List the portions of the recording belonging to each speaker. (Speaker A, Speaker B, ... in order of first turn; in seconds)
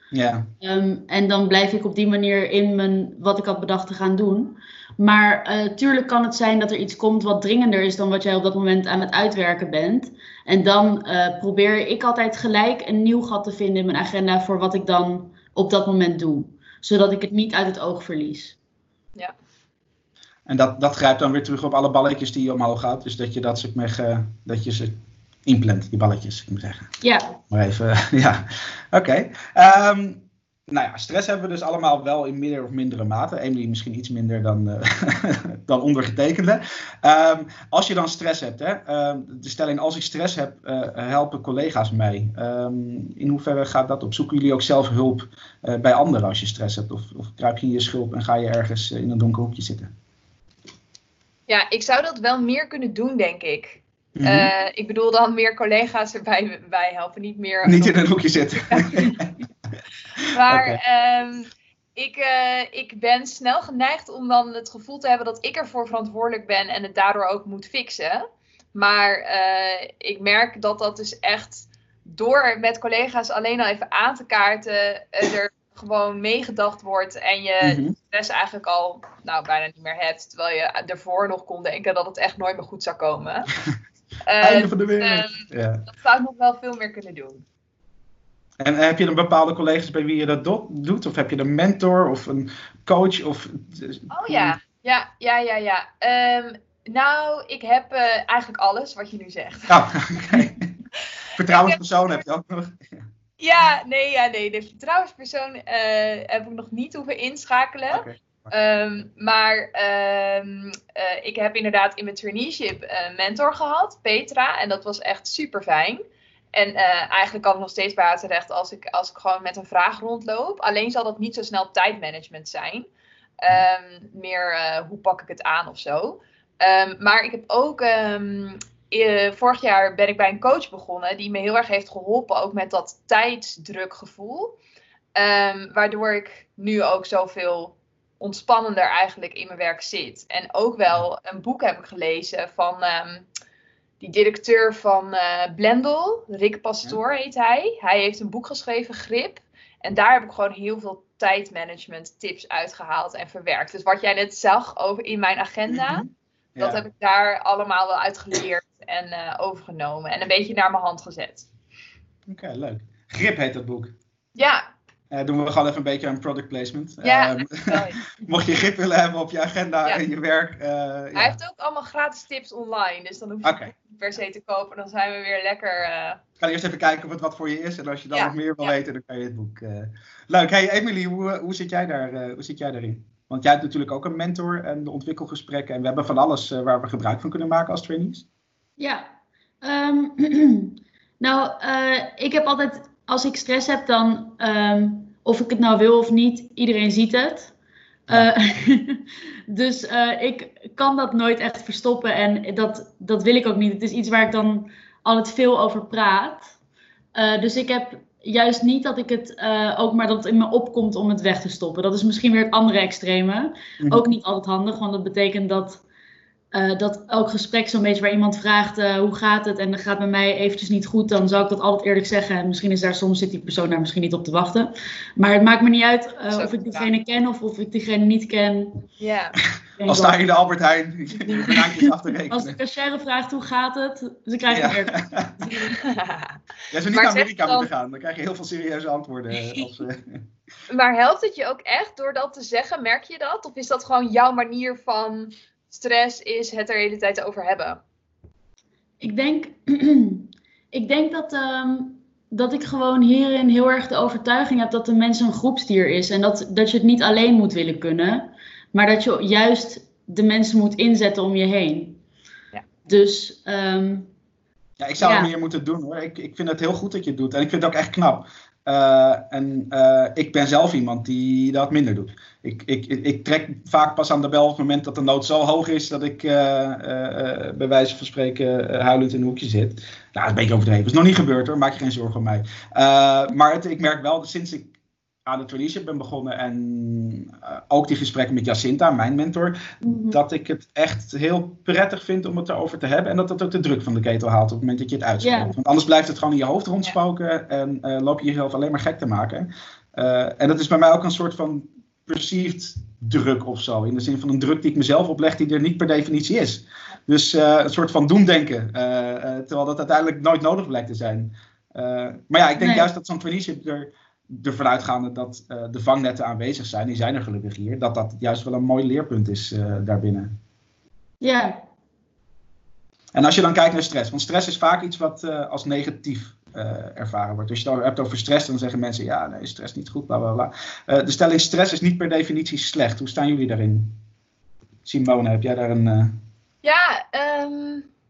Speaker A: 0.1-0.5, 20.5-24.9, 25.4-26.9, 27.5-49.9, 54.1-54.5, 57.6-59.4, 60.5-60.8, 77.6-78.0, 84.4-85.8, 88.6-94.5, 99.7-100.7, 101.4-103.0, 107.9-108.5, 155.7-156.8, 162.3-163.9, 165.1-171.4, 173.4-173.7, 176.4-188.2, 229.8-232.5, 234.5-235.3, 236.7-240.2, 264.8-284.7, 285.2-289.6, 290.1-320.3, 323.1-334.0, 334.8-336.2
Speaker B: 0.6-18.6, 27.0-27.4, 188.8-189.0, 189.6-197.5, 198.1-206.5, 207.1-215.8, 216.5-228.8, 229.8-230.2, 231.1-235.1, 249.0-262.0, 262.9-264.1, 265.0-265.3, 289.8-290.2, 295.2-295.6, 312.6-312.9, 321.2-321.6
Speaker C: 51.5-59.2, 60.3-68.2, 68.7-83.5, 84.2-87.4, 94.1-99.8, 101.5-102.2, 103.4-116.0, 116.5-122.9, 123.4-134.6, 135.1-143.2, 144.0-156.1, 156.6-161.5, 164.3-164.6, 167.0-168.0, 171.1-176.2, 178.1-178.7, 226.3-226.9, 229.0-229.3, 235.4-236.4, 236.9-237.7, 239.4-239.7, 240.7-247.8, 336.6-337.9